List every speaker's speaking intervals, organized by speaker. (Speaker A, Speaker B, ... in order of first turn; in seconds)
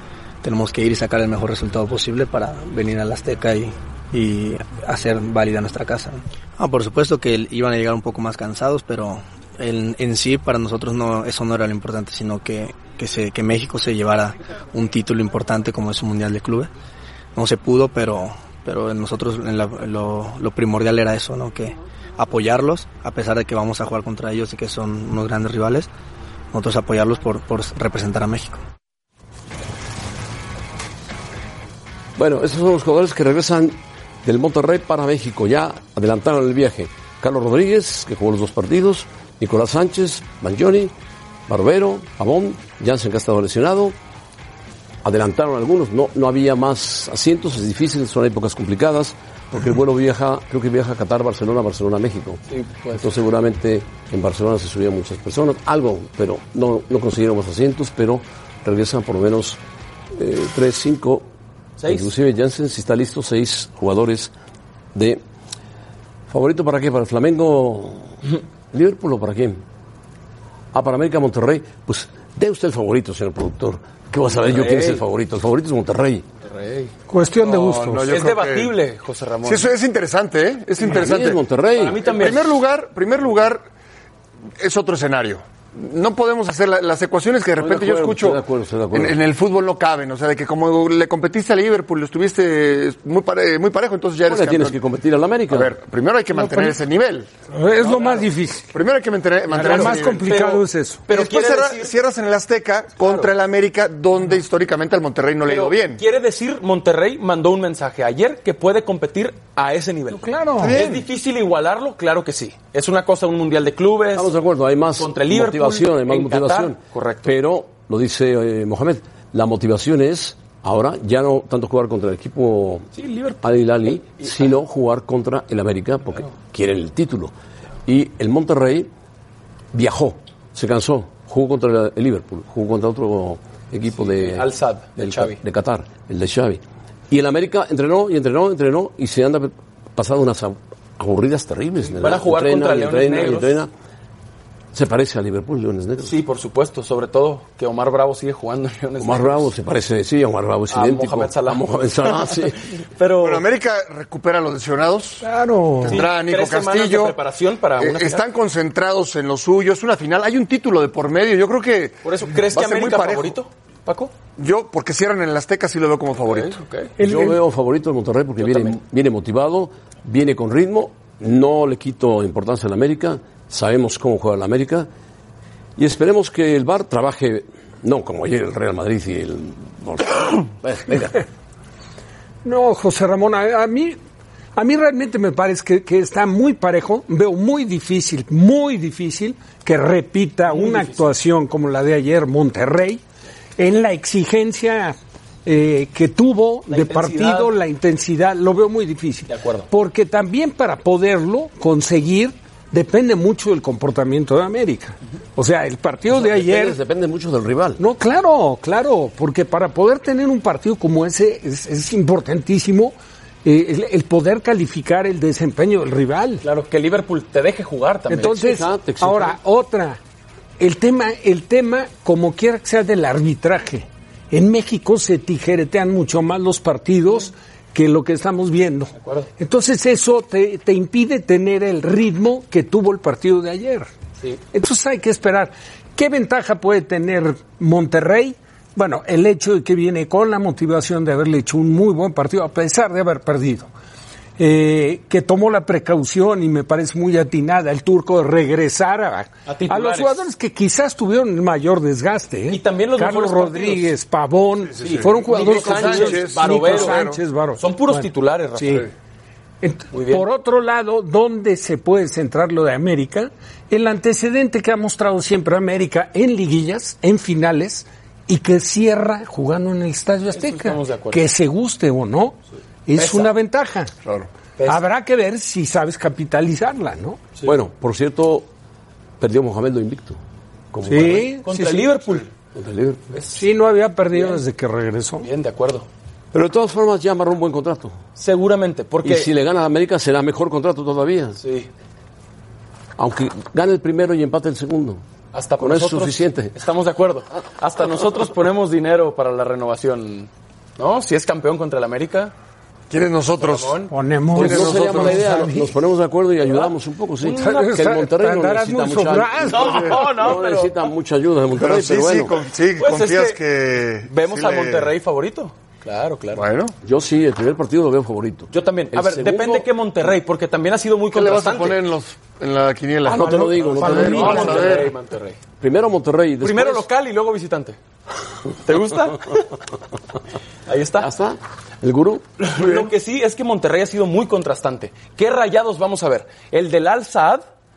Speaker A: 0.4-16.7, 17.3-25.9, 26.5-28.6
Speaker B: 32.1-40.9, 41.5-44.0, 45.0-52.4, 52.9-59.6, 60.1-61.3, 61.8-64.3, 64.9-65.2, 66.3-68.2, 68.7-69.6, 70.7-76.3, 80.9-82.0, 87.6-89.2, 94.2-95.7, 114.1-122.9, 123.4-127.3, 127.8-128.9, 129.7-143.7, 144.7-146.2, 149.0-152.6, 167.0-174.9, 175.8-181.2, 206.1-207.8, 218.2-219.4, 277.4-278.5, 279.2-280.2, 280.7-281.3, 282.5-283.1, 286.3-288.0, 289.0-291.4, 293.0-295.0, 295.6-296.5, 304.3-312.3, 316.8-319.7, 323.0-324.7, 325.6-326.9, 331.0-332.4
Speaker C: 52.5-53.2, 61.8-62.1, 74.3-75.0, 76.4-76.9, 78.0-79.7, 81.7-82.6, 97.9-98.2, 99.5-102.0, 103.0-103.3, 105.4-114.3, 115.0-117.3, 122.9-124.5, 133.9-135.4, 141.9-143.6, 146.0-149.5, 150.7-153.4, 155.8-158.2, 162.0-164.1, 166.2-166.9, 168.4-168.7, 190.5-191.1, 196.7-197.5, 199.3-199.7, 216.4-218.4, 229.0-229.3, 249.4-250.3, 252.5-253.9, 254.8-258.9, 259.9-260.3, 270.3-271.2, 272.9-273.3, 274.6-274.9, 281.4-282.3, 283.1-283.4, 284.1-284.4, 285.2-285.9, 288.1-289.3, 291.4-291.7, 295.3-302.3, 303.4-303.9, 306.4-307.6, 309.5-310.8, 312.7-313.4, 314.0-316.4, 318.5-321.8, 323.5-325.4, 326.4-327.8, 328.6-329.5, 330.7-331.1, 332.4-337.4
Speaker D: 77.1-78.0, 96.3-96.8, 97.5-98.7, 99.5-101.0, 110.1-110.8, 155.2-156.0, 167.0-167.4, 182.4-184.0, 184.6-193.0, 193.6-206.8, 207.8-216.4, 218.1-220.0, 220.6-233.9, 234.5-243.7, 244.4-258.9, 259.6-273.9, 274.6-277.2, 280.8-282.1, 283.3-285.3, 303.9-305.7, 307.4-310.0, 323.8-324.7
Speaker E: 77.4-78.8, 79.4-81.4, 82.0-83.6, 84.6-88.4, 88.9-94.8, 95.5-97.3, 98.7-100.5, 101.1-106.0, 110.7-111.0, 153.2-155.2, 155.8-157.2, 157.8-163.4, 164.4-166.6, 254.8-257.2, 274.0-274.3, 302.9-305.3, 311.6-314.9, 316.3-316.7, 321.1-324.9, 332.6-332.9